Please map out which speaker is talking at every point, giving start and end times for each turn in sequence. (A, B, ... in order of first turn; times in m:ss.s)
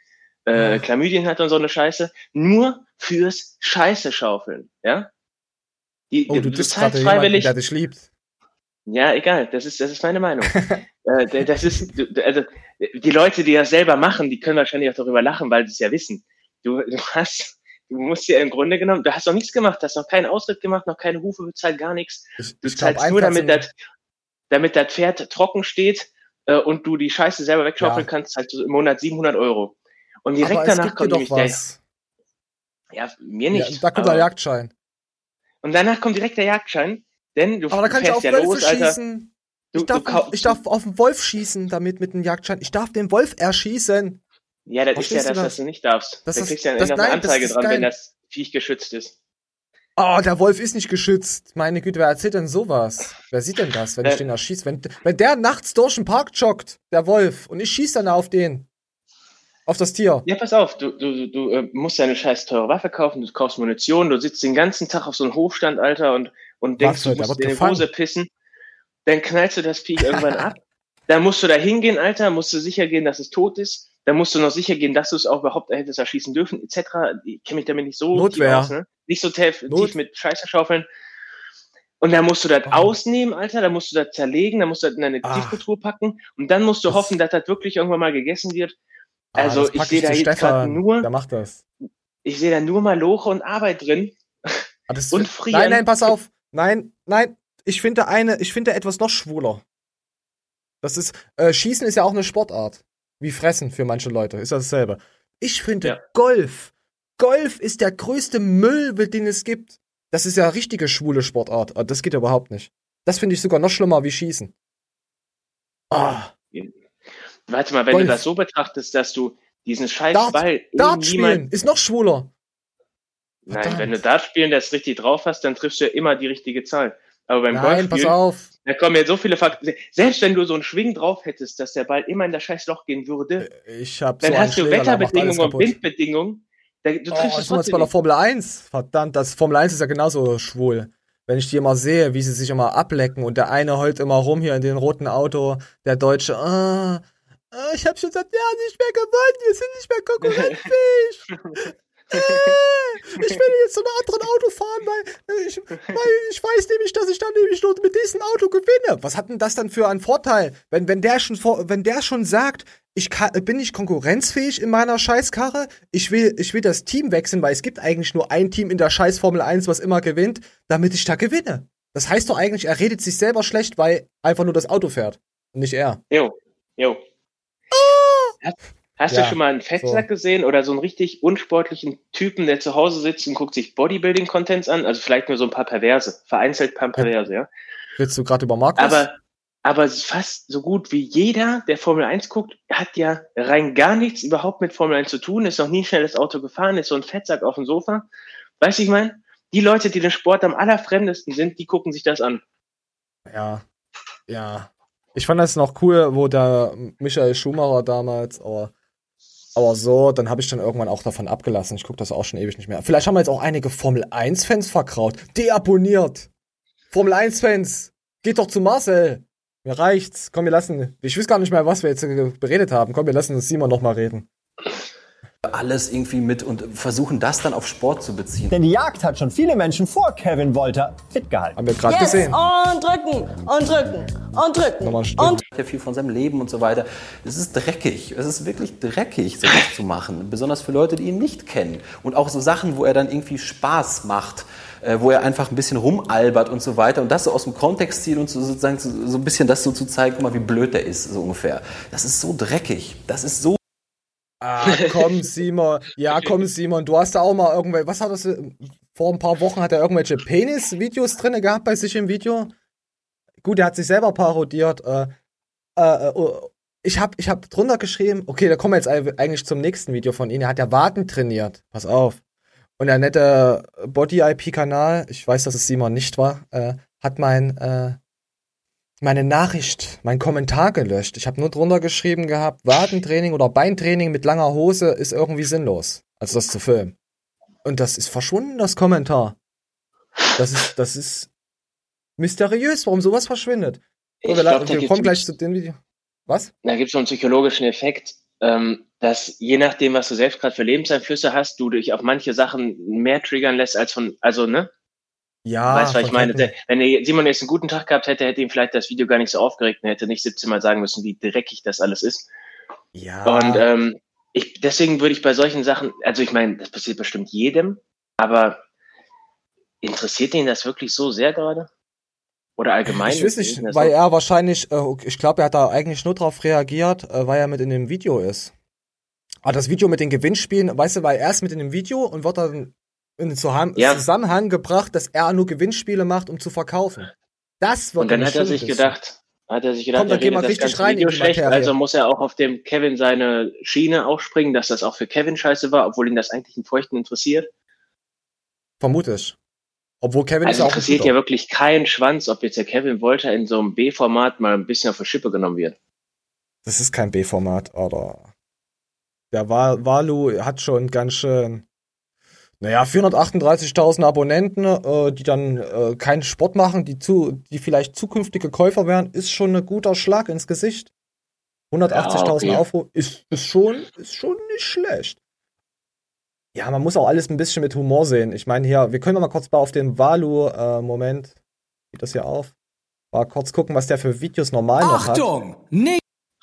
0:00.4-0:05.1 A
0:00.5-0:00.8 B
0:06.1-0:07.5 A
0:06.3-0:08.1 B
0:08.9-0:10.5 A
0:10.5-0:10.8 B
0:11.0-0:23.7 A
0:22.4-0:23.6 B
0:24.5-0:31.6 A
0:27.8-0:28.1 B
0:30.4-0:31.8 B
0:32.9-0:34.3 A
0:33.5-0:34.7 B
0:35.6-0:39.0 A
0:37.7-0:44.2 B
0:39.7-0:40.6 A
0:44.7-0:49.1 A
0:44.9-0:45.6 B
0:46.2-0:47.9 B
0:50.0-0:58.7 B
0:59.7-1:00.2 B
1:00.2-1:08.3 A
1:06.8-1:07.9 B
1:09.0-1:10.5 A
1:10.0-1:10.5 B
1:11.1-1:20.8 A
1:18.1-1:18.7 B
1:19.7-1:19.9 B
1:22.0-1:28.7 A
1:22.7-1:22.9 B
1:25.2-1:25.6 B
1:29.3-1:31.6 B
1:29.4-1:31.1 A
1:32.2-1:34.5 A
1:34.9-1:39.6 B
1:35.1-1:36.1 A
1:40.8-1:54.5 B
1:55.9-1:56.3 B
1:57.5-2:01.4 A
1:57.9-1:58.2 B
2:00.1-2:02.3 B
2:03.5-2:13.5 A
2:03.5-2:04.0 B
2:07.5-2:08.5 B
2:13.4-2:15.8 B
2:14.2-2:17.9 A
2:17.1-2:56.0 B
2:30.2-2:30.6 A
2:32.1-2:32.6 A
2:56.1-2:57.0 A
2:57.7-2:58.3 B
2:58.4-3:07.5 A
2:59.1-3:00.0 B
3:08.0-3:09.0 B
3:08.8-3:18.1 A
3:18.6-3:22.4 A
3:23.2-3:23.6 B
3:24.3-3:28.7 B
3:29.5-3:36.3 B
3:36.9-3:44.3 B
3:45.5-3:48.6 C
3:48.5-3:51.6 D
3:51.6-3:52.4 B
3:51.8-3:55.4 E
3:54.8-3:55.4 B
3:55.5-4:13.6 C
4:14.4-4:22.5 B
4:23.4-4:25.1 B
4:25.8-4:32.2 B
4:32.8-4:38.0 B
4:39.0-4:46.9 B
4:47.6-4:49.4 B
4:50.4-4:51.3 B
4:52.2-4:56.5 B
4:54.2-4:55.2 A
4:56.6-5:04.7 A
5:05.4-5:06.5 B
5:05.7-5:12.3 A
5:12.9-5:13.6 B
5:13.2-5:18.6 A
5:19.8-5:21.7 A
5:22.6-5:23.9 A
5:22.9-5:28.5 B
5:29.4-5:37.1 B
5:33.8-5:34.0 A
5:37.6-5:38.9 B
5:38.0-5:47.5 A
5:39.9-5:41.7 B
5:48.8-5:49.4 B
5:50.0-5:51.1 B
5:50.4-5:55.8 A
5:56.6-5:58.3 B
5:59.3-6:01.6 B
6:02.6-6:10.9 B
6:11.7-6:15.2 B
6:11.9-6:12.6 A
6:16.5-6:21.4 B
6:21.9-6:22.5 B
6:23.1-6:25.3 B